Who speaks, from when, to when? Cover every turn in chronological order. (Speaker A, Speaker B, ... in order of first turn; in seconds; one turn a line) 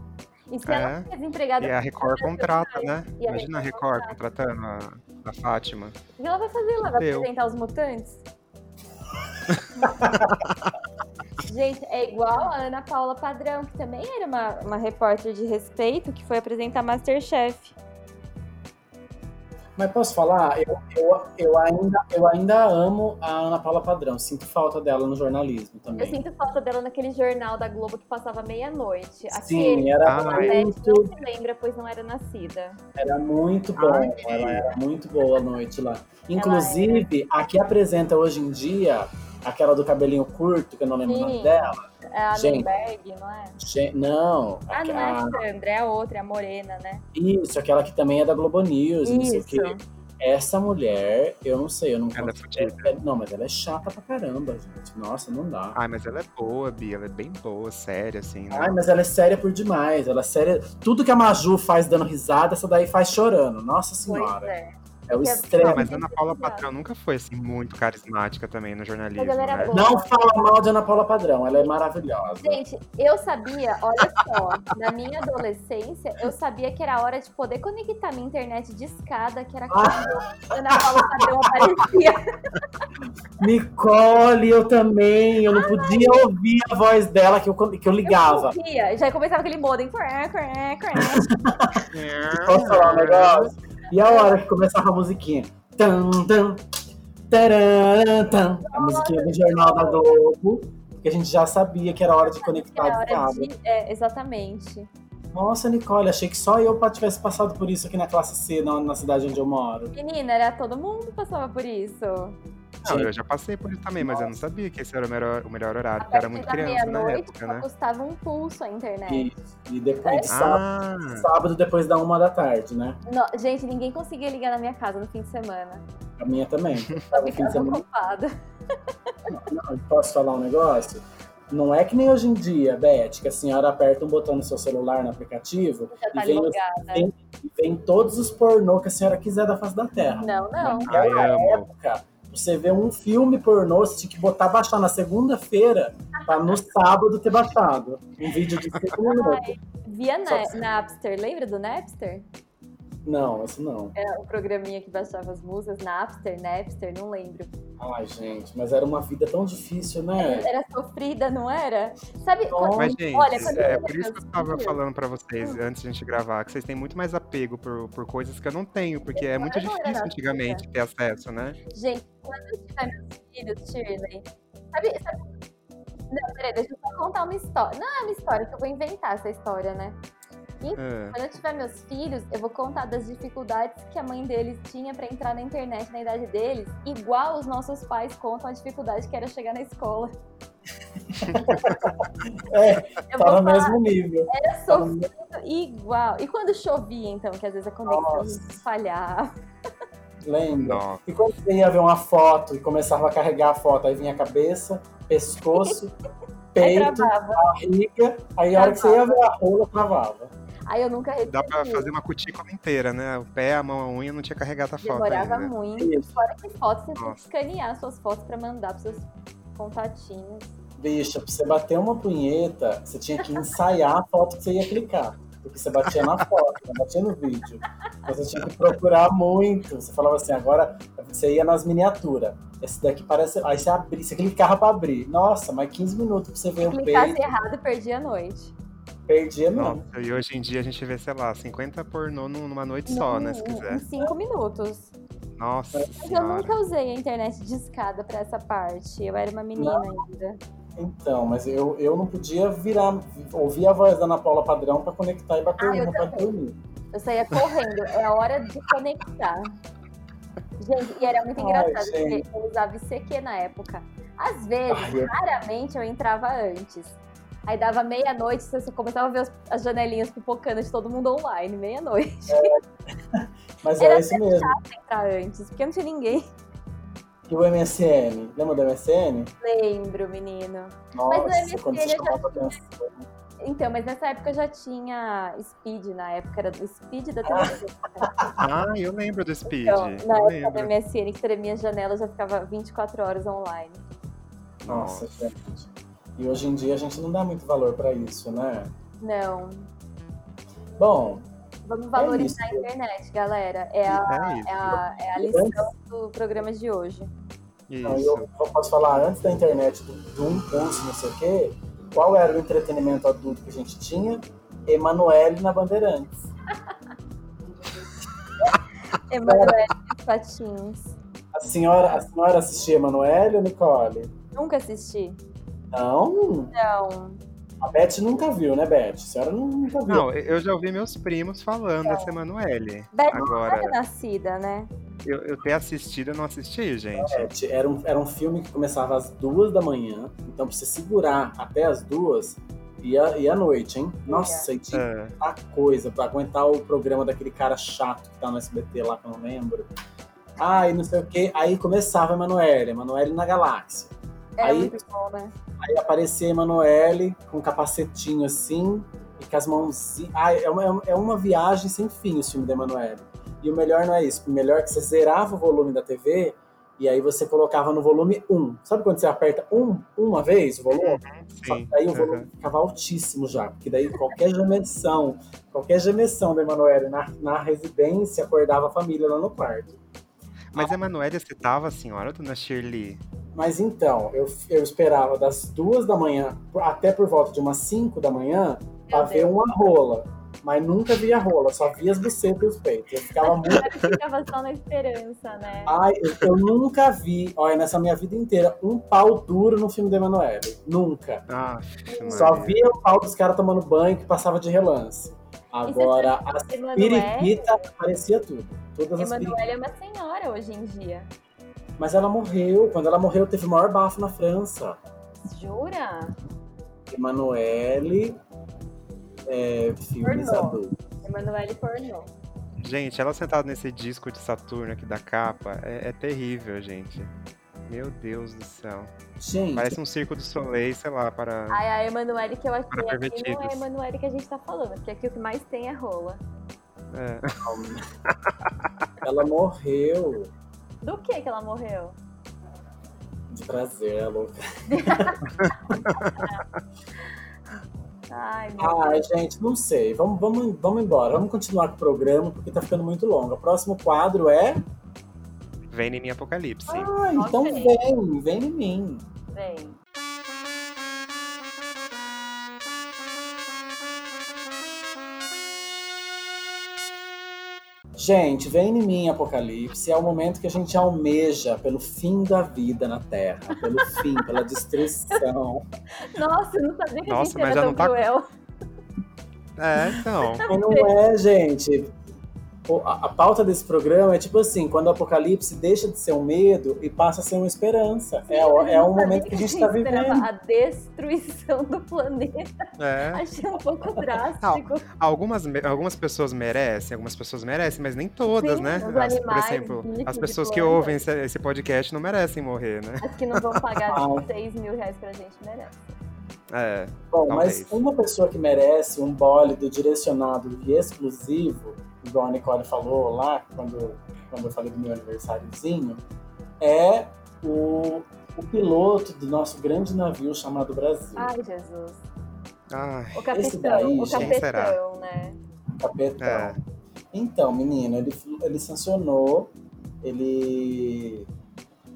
Speaker A: 0.5-4.2
Speaker B: 0.7-1.1
Speaker B: 1.6-6.0
Speaker A: 6.2-8.2
Speaker B: 7.0-7.3
Speaker C: 9.9-10.3
Speaker A: 11.4-17.8
Speaker C: 19.8-26.2
Speaker A: 26.0-32.8
Speaker C: 29.3-31.1
Speaker B: 30.0-30.6
Speaker C: 33.0-42.7
Speaker B: 33.8-34.7
Speaker A: 36.4-37.1
Speaker A: 41.0-43.6
Speaker C: 43.6-45.4
Speaker A: 44.7-47.0
Speaker C: 47.1-55.8
Speaker A: 49.0-49.8
Speaker B: 52.1-52.9
Speaker B: 55.8-58.8
Speaker C: 58.5-64.5
Speaker A: 64.1-66.7
Speaker C: 65.1-65.9
Speaker B: 65.6-69.8
Speaker A: 69.2-70.2
Speaker C: 69.7-72.6
Speaker A: 72.4-82.8
Speaker C: 79.7-81.7
Speaker C: 83.4-88.6
Speaker A: 85.5-86.3
Speaker A: 88.0-91.3
Speaker C: 91.0-96.6
Speaker B: 91.9-93.5
Speaker A: 94.0-94.4
Speaker C: 97.3-103.5
Speaker A: 98.7-100.0
Speaker A: 102.2-104.9
Speaker C: 105.3-109.9
Speaker A: 109.9-112.4
Speaker C: 112.8-113.1
Speaker B: 112.8-117.7
Speaker C: 114.0-114.4
Speaker A: 116.0-119.3
Speaker C: 119.1-123.0
Speaker A: 120.0-120.3
Speaker B: 120.3-121.3
Speaker A: 123.1-125.8
Speaker C: 126.2-127.8
Speaker A: 127.1-128.3
Speaker A: 129.1-129.3
Speaker C: 129.3-149.5
Speaker A: 135.9-137.1
Speaker A: 140.2-141.3
Speaker B: 140.6-141.7
Speaker A: 149.0-152.3
Speaker C: 150.3-150.6
Speaker C: 153.1-153.9
Speaker A: 153.9-157.5
Speaker C: 157.8-160.5
Speaker A: 160.2-164.8
Speaker C: 162.5-163.8
Speaker B: 162.8-171.6
Speaker A: 169.2-170.6
Speaker A: 171.7-175.3
Speaker A: 176.1-180.0
Speaker A: 180.6-190.1
Speaker B: 180.8-181.2
Speaker C: 191.2-195.1
Speaker B: 191.3-191.7
Speaker A: 193.1-199.3
Speaker C: 197.9-198.6
Speaker C: 200.2-205.9
Speaker B: 200.6-201.0
Speaker C: 206.6-210.3
Speaker A: 206.6-207.5
Speaker A: 208.5-209.3
Speaker A: 210.7-211.9
Speaker B: 211.3-215.5
Speaker A: 214.8-220.5
Speaker C: 215.8-216.1
Speaker C: 220.8-237.2
Speaker A: 236.6-238.5
Speaker C: 239.1-239.8
Speaker B: 239.6-243.8
Speaker A: 242.9-244.9
Speaker B: 245.4-246.5
Speaker A: 246.0-250.4
Speaker C: 249.6-249.9
Speaker C: 250.8-256.6
Speaker A: 255.6-256.3
Speaker A: 256.9-259.6
Speaker A: 260.6-272.5
Speaker C: 261.4-262.2
Speaker C: 264.7-265.1
Speaker C: 272.3-272.6
Speaker C: 273.1-274.5
Speaker A: 273.8-276.3
Speaker C: 277.3-279.3
Speaker A: 279.4-282.6
Speaker C: 280.9-283.0
Speaker A: 283.4-288.1
Speaker C: 287.2-288.5
Speaker B: 288.4-290.7
Speaker A: 289.5-293.8
Speaker B: 294.6-295.3
Speaker C: 294.7-298.7
Speaker A: 299.0-299.7
Speaker C: 300.8-301.3
Speaker A: 301.6-307.1
Speaker C: 302.0-302.7
Speaker B: 303.9-304.8
Speaker C: 305.1-305.7
Speaker B: 307.7-308.3
Speaker C: 307.8-316.3
Speaker A: 319.1-320.9
Speaker C: 319.2-319.6
Speaker C: 321.3-324.1
Speaker A: 324.3-325.2
Speaker C: 325.7-326.5
Speaker A: 326.5-327.2
Speaker C: 327.6-330.1
Speaker B: 329.9-333.8
Speaker A: 331.8-332.1
Speaker A: 332.9-334.7
Speaker B: 335.1-337.3
Speaker C: 337.0-349.7
Speaker A: 344.1-344.5
Speaker B: 344.7-345.1
Speaker C: 350.4-354.8
Speaker A: 354.4-355.4
Speaker C: 355.6-379.8
Speaker B: 370.7-372.3
Speaker B: 380.5-383.0
Speaker C: 383.4-393.7
Speaker A: 388.9-389.4
Speaker A: 393.2-395.8
Speaker C: 395.7-401.2
Speaker B: 401.3-402.6
Speaker A: 401.9-402.5
Speaker C: 402.1-409.4
Speaker A: 405.7-407.6
Speaker A: 409.0-411.1
Speaker C: 411.8-414.8
Speaker A: 415.2-416.2
Speaker C: 416.9-418.2
Speaker C: 419.3-420.8
Speaker A: 420.0-422.1
Speaker B: 422.6-427.1
Speaker B: 427.7-428.9
Speaker C: 429.2-429.8
Speaker B: 429.6-431.6
Speaker A: 431.5-436.2
Speaker B: 432.7-433.6
Speaker B: 436.9-437.5
Speaker C: 437.4-437.9
Speaker C: 439.0-440.3
Speaker A: 440.8-442.0
Speaker C: 443.3-445.2
Speaker A: 444.7-445.4
Speaker B: 445.5-446.2
Speaker A: 445.9-446.4
Speaker A: 448.1-449.1
Speaker C: 448.6-454.6
Speaker B: 455.7-456.9
Speaker C: 456.7-459.1
Speaker A: 457.1-457.8
Speaker A: 459.3-459.8
Speaker C: 468.0-475.6
Speaker A: 473.8-474.3
Speaker A: 475.9-478.3
Speaker B: 477.1-477.9
Speaker B: 479.6-480.4
Speaker A: 480.2-480.9
Speaker C: 480.5-481.9
Speaker C: 482.7-490.3
Speaker A: 488.3-494.9
Speaker B: 492.8-493.2
Speaker B: 494.4-503.6
Speaker A: 498.3-501.0
Speaker A: 503.0-505.9
Speaker C: 503.9-504.3
Speaker B: 506.5-507.8
Speaker C: 507.1-516.0
Speaker C: 516.6-521.3
Speaker A: 521.2-522.0
Speaker B: 522.7-523.2
Speaker A: 523.1-525.4
Speaker C: 523.3-524.4
Speaker B: 524.1-524.8
Speaker C: 525.8-526.6
Speaker B: 526.2-526.6
Speaker C: 527.1-531.3